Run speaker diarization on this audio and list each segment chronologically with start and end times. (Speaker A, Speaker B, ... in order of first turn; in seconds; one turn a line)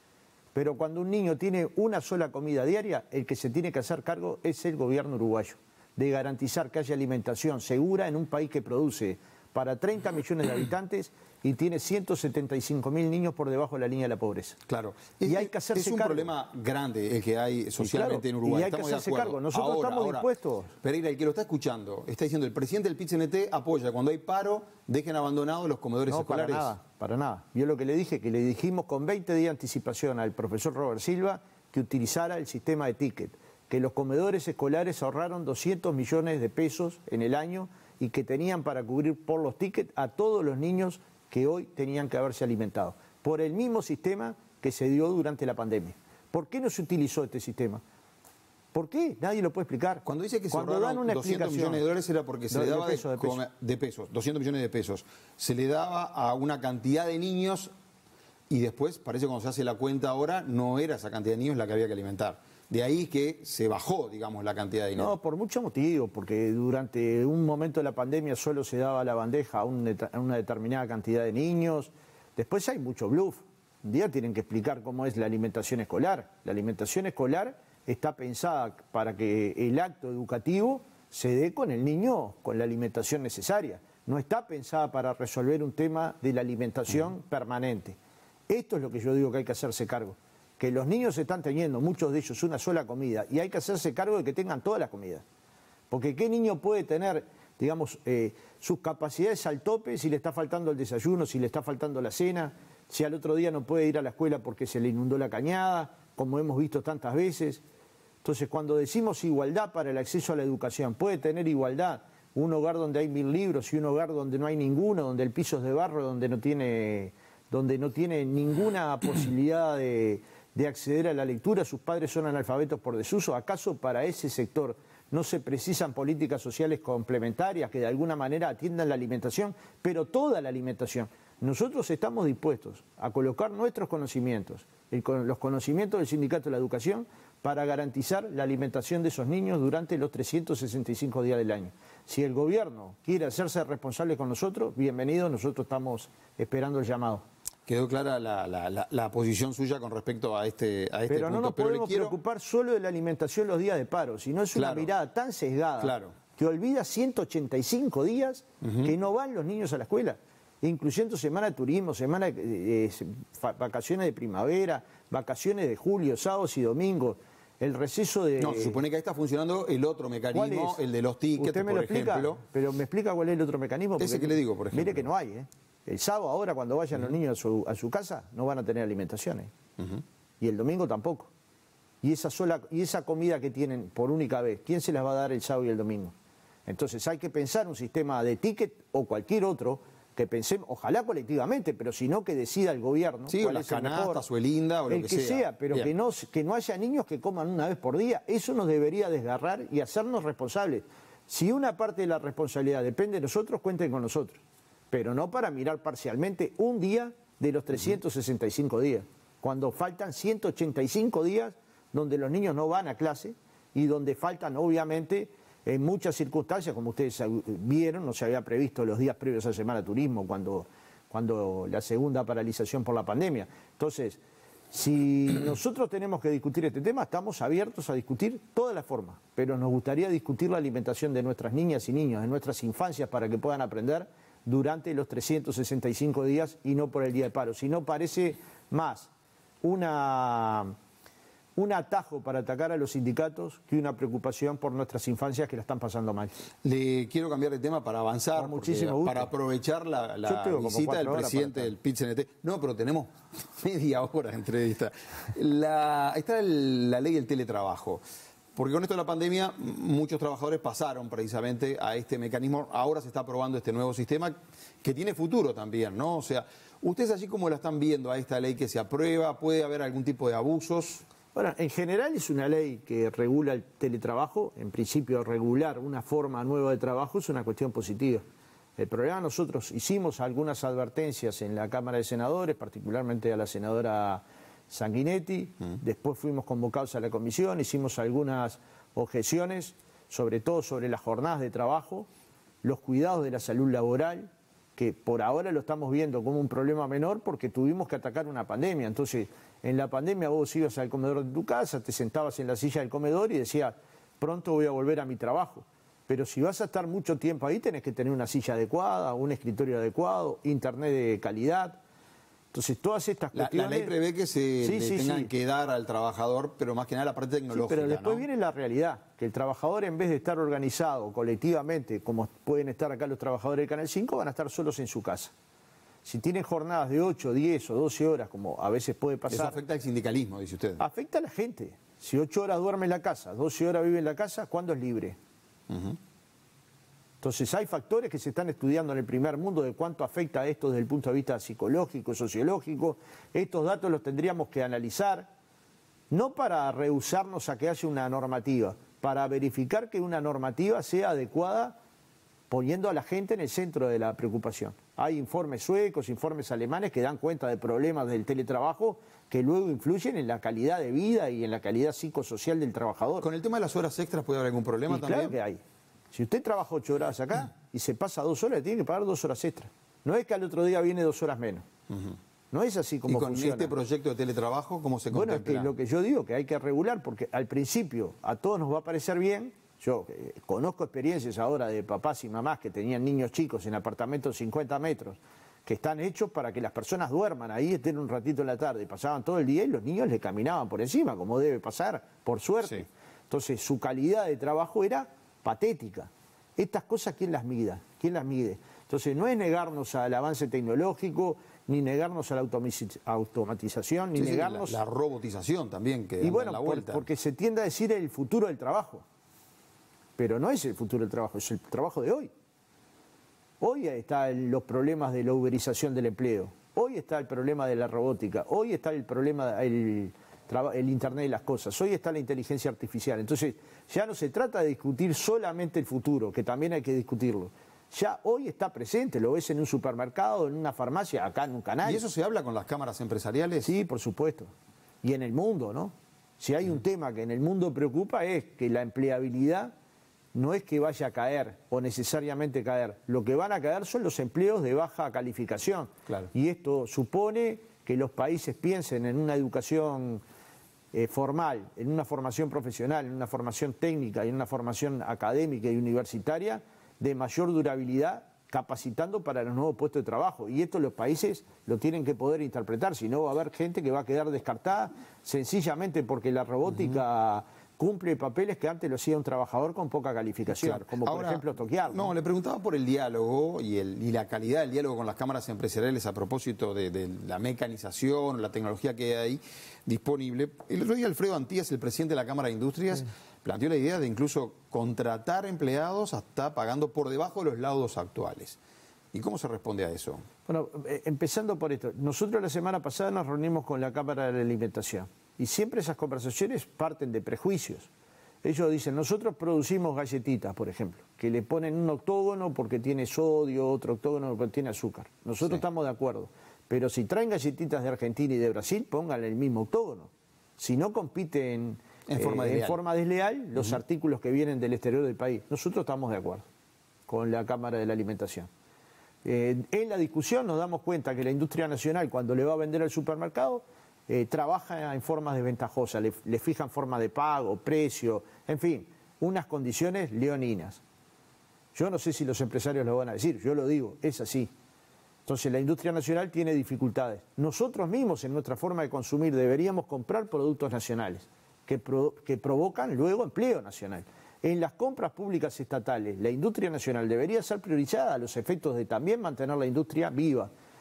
Speaker A: 0.5-14.6
Speaker B: 14.7-20.3
Speaker A: 15.2-16.3
Speaker A: 17.8-20.7
Speaker B: 20.8-26.7
Speaker A: 26.1-47.8
Speaker A: 48.7-51.8
Speaker B: 50.0-57.7
Speaker A: 52.5-53.4
Speaker B: 58.5-65.1
Speaker A: 65.0-88.0
Speaker A: 88.5-95.2
Speaker A: 95.9-107.6
Speaker A: 108.2-147.2
Speaker B: 147.7-152.2
Speaker A: 151.1-168.8
Speaker B: 154.5-154.9
Speaker B: 155.8-156.1
Speaker B: 158.6-158.9
Speaker B: 168.4-172.4
Speaker A: 170.3-170.8
Speaker A: 171.4-179.5
Speaker B: 174.0-175.1
Speaker A: 180.4-181.3
Speaker A: 182.0-186.1
Speaker A: 186.7-194.2
Speaker B: 193.3-195.9
Speaker A: 194.9-204.4
Speaker A: 204.9-224.2
Speaker A: 224.7-239.1
Speaker A: 239.6-240.8
Speaker A: 241.6-246.4
Speaker B: 246.6-258.0
Speaker A: 248.3-249.3
Speaker A: 250.2-251.7
Speaker B: 258.6-271.0
Speaker A: 271.3-278.2
Speaker A: 278.8-292.1
Speaker A: 292.6-311.8
Speaker A: 312.5-313.9
Speaker B: 313.3-318.3
Speaker A: 314.6-315.3
Speaker A: 317.5-325.3
Speaker A: 326.1-329.6
Speaker B: 329.3-330.8
Speaker A: 330.8-335.2
Speaker B: 335.7-336.0
Speaker A: 337.2-345.3
Speaker A: 346.1-351.8
Speaker A: 352.5-363.3
Speaker B: 363.2-365.4
Speaker A: 364.9-365.6
Speaker A: 366.1-371.7
Speaker B: 371.9-372.2
Speaker A: 372.5-373.7
Speaker B: 373.1-375.7
Speaker A: 375.1-404.8
Speaker B: 404.1-407.1
Speaker A: 406.2-409.0
Speaker A: 410.2-412.3
Speaker A: 413.6-432.0
Speaker B: 431.8-433.7
Speaker A: 433.6-434.5
Speaker A: 435.0-439.7
Speaker A: 440.3-450.2
Speaker A: 450.9-472.1
Speaker B: 470.5-488.6
Speaker B: 489.1-490.2
Speaker A: 490.5-497.9
Speaker A: 498.4-516.5
Speaker B: 512.1-512.8
Speaker A: 517.1-518.5
Speaker A: 519.2-530.8
Speaker A: 531.8-534.5
Speaker A: 535.3-550.5